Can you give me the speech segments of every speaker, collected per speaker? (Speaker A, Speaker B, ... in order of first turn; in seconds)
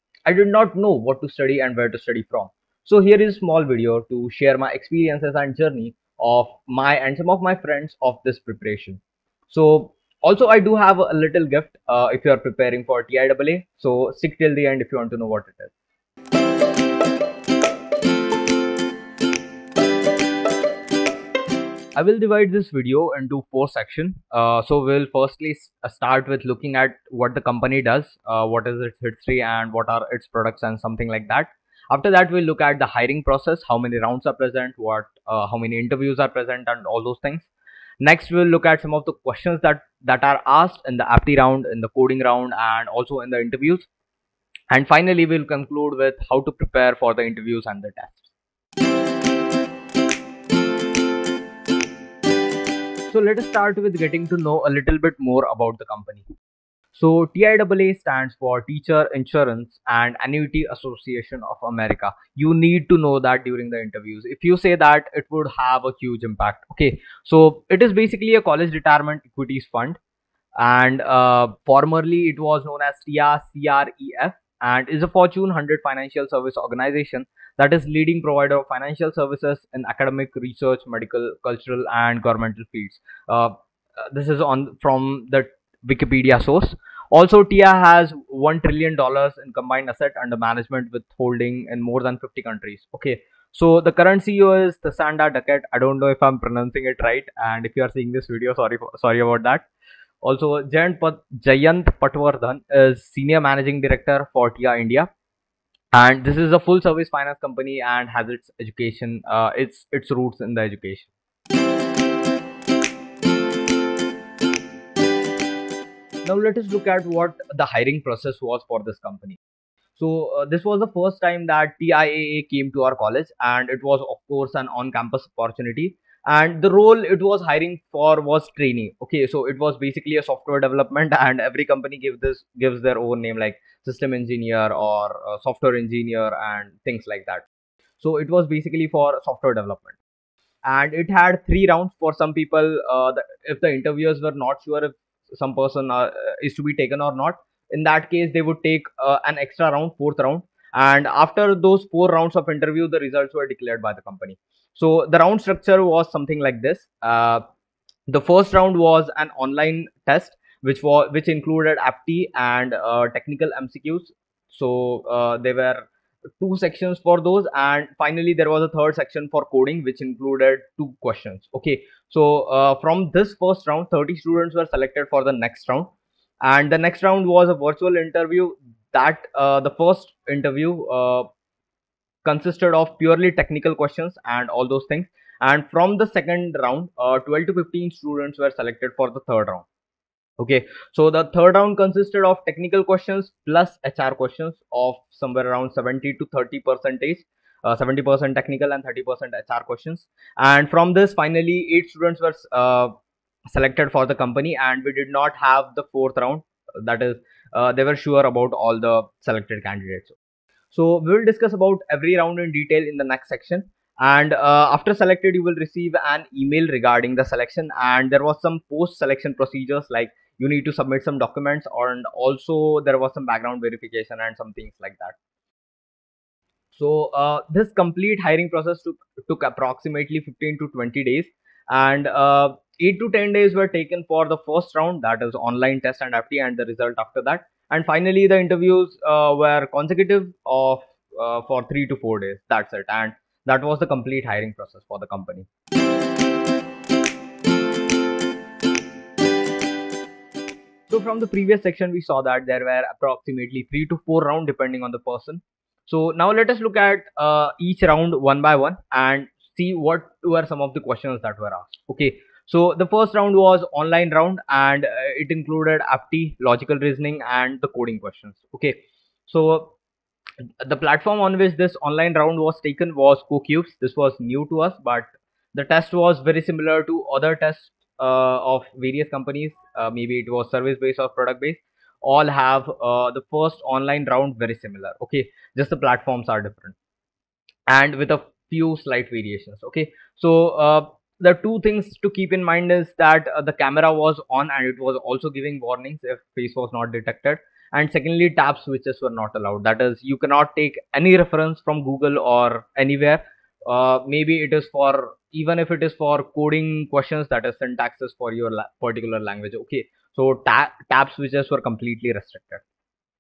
Speaker A: 0.3-15.7, 22.0-37.5, 38.0-43.9, 44.7-48.3, 53.1-56.3, 56.9-70.0, 70.6-99.7, 100.2-105.1, 105.9-111.1, 116.2-119.4, 120.0-137.4, 138.0-140.0, 140.7-157.4, 158.1-165.9, 166.4-175.9, 176.4-181.3, 182.2-189.7, 190.4-202.9, 203.5-210.2, 210.7-225.2, 226.8-245.5, 250.9-269.7, 270.6-286.8, 287.7-312.6